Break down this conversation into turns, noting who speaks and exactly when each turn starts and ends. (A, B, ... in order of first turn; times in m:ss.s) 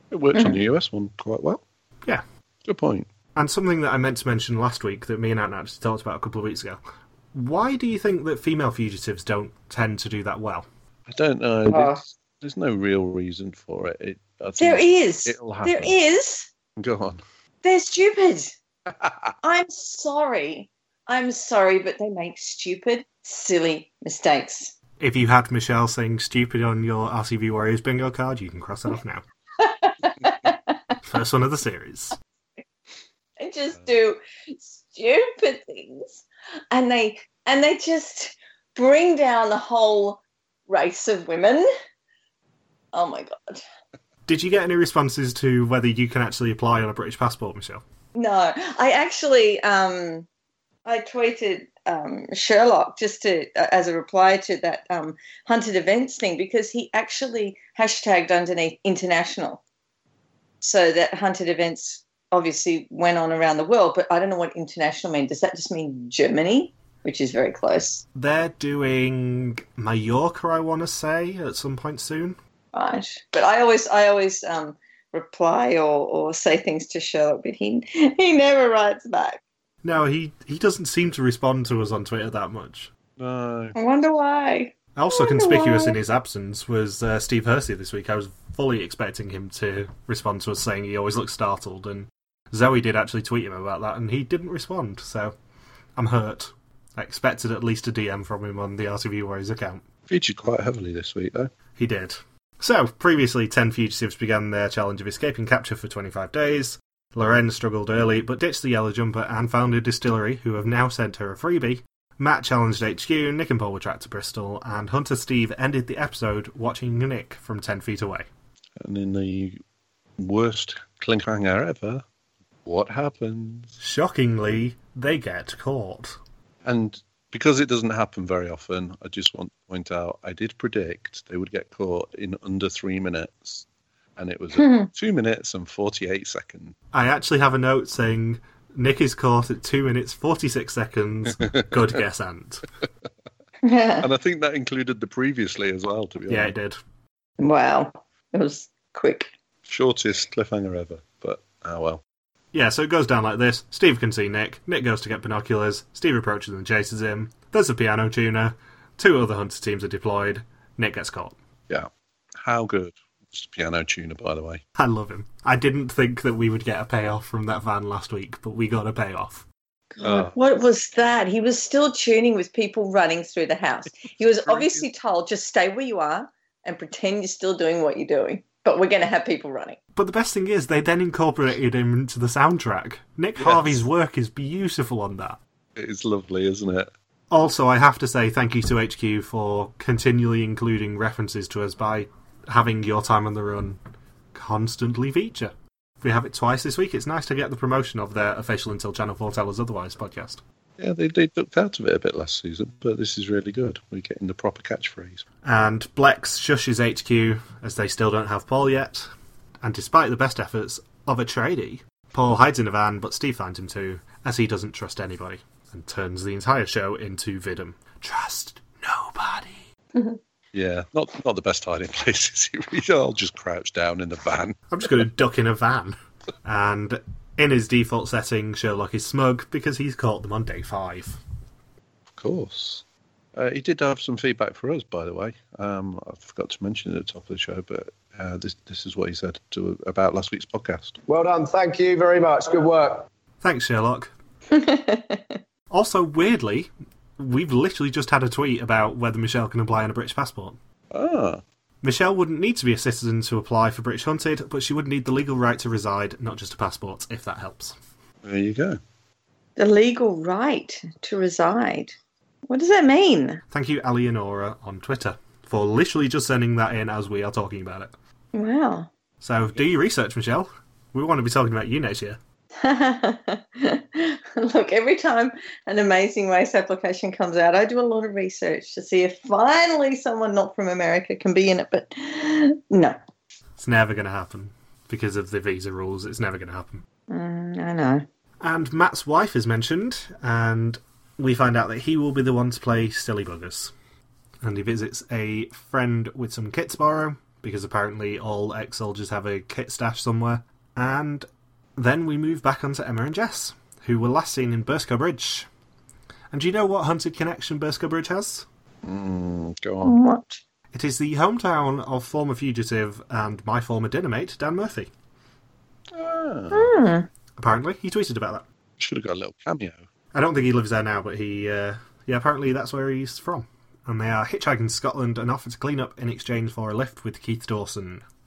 0:00.1-0:01.6 A
0:02.7-0:03.1 A
0:03.4-0:06.8 B
0:07.3-0:10.7 B
0:11.1-0:16.0 A
0:11.7-0:12.0 C
0:14.6-0:16.5 C
0:16.8-0:17.2 A
0:17.6-0:18.6 C
0:18.9-0:19.3 A
0:19.4-0:24.7 C
0:25.0-0:29.2 B
0:29.6-0:30.7 C
0:31.1-0:32.2 B
0:33.4-0:41.7 C
0:42.9-0:43.6 C
0:44.3-0:47.8 B
0:48.2-0:50.3 C
0:50.8-0:59.6 C
1:00.6-1:08.0 C
1:08.2-1:12.4 B
1:12.7-1:19.4 C
1:19.8-1:22.9 B
1:23.2-1:23.8 A
1:23.8-1:26.0 C
1:25.0-1:35.4 B
1:36.0-1:39.8 B
1:40.1-1:41.5 A
1:41.8-1:58.3 B
1:58.8-1:59.6 A
2:00.2-2:02.0 A
2:02.6-2:03.8 A
2:03.8-2:06.2 B
2:06.6-2:13.7 A
2:14.2-2:16.8 A
2:14.6-2:14.9 C
2:16.9-2:22.6 B
2:23.6-2:24.1 C
2:24.0-2:26.5 A
2:26.3-2:26.8 B
2:27.4-2:29.3 C
2:29.7-2:32.0 A
2:32.5-2:41.4 B
2:41.7-2:44.6 A
2:44.8-2:49.4 B
2:49.9-2:59.8 C
2:50.0-2:50.4 A
2:54.4-2:54.9 A
3:00.0-3:05.4 B
3:03.4-3:03.8 A
3:05.8-3:06.9 A
3:07.3-3:13.8 B
3:14.3-3:20.4 B
3:20.8-3:25.2 A
3:25.4-3:29.1 B
3:29.6-3:39.6 B
3:40.5-3:44.7 A
3:44.7-3:51.2 B
3:52.2-3:52.8 A
3:53.4-4:01.0 A
4:01.1-4:03.1 D
4:03.4-4:04.1 B
4:04.5-4:05.3 C
4:05.7-4:10.6 B
4:10.9-4:11.4 A
4:11.8-4:17.8 B
4:18.2-4:18.8 A
4:19.6-4:22.0 C
4:22.5-4:23.4 C
4:23.5-4:27.9 B
4:28.3-4:28.9 C
4:29.2-4:32.2 B
4:32.6-4:43.0 C
4:43.6-4:46.8 B
4:47.1-4:48.0 C
4:48.4-4:53.7 B
4:54.4-5:05.5 B
5:06.3-5:08.5 B
5:08.8-5:10.0 A
5:09.8-5:10.4 C
5:10.7-5:14.9 B
5:15.9-5:16.8 A
5:16.5-5:17.1 C
5:17.4-5:18.4 B
5:18.8-5:19.8 A
5:20.1-5:28.0 B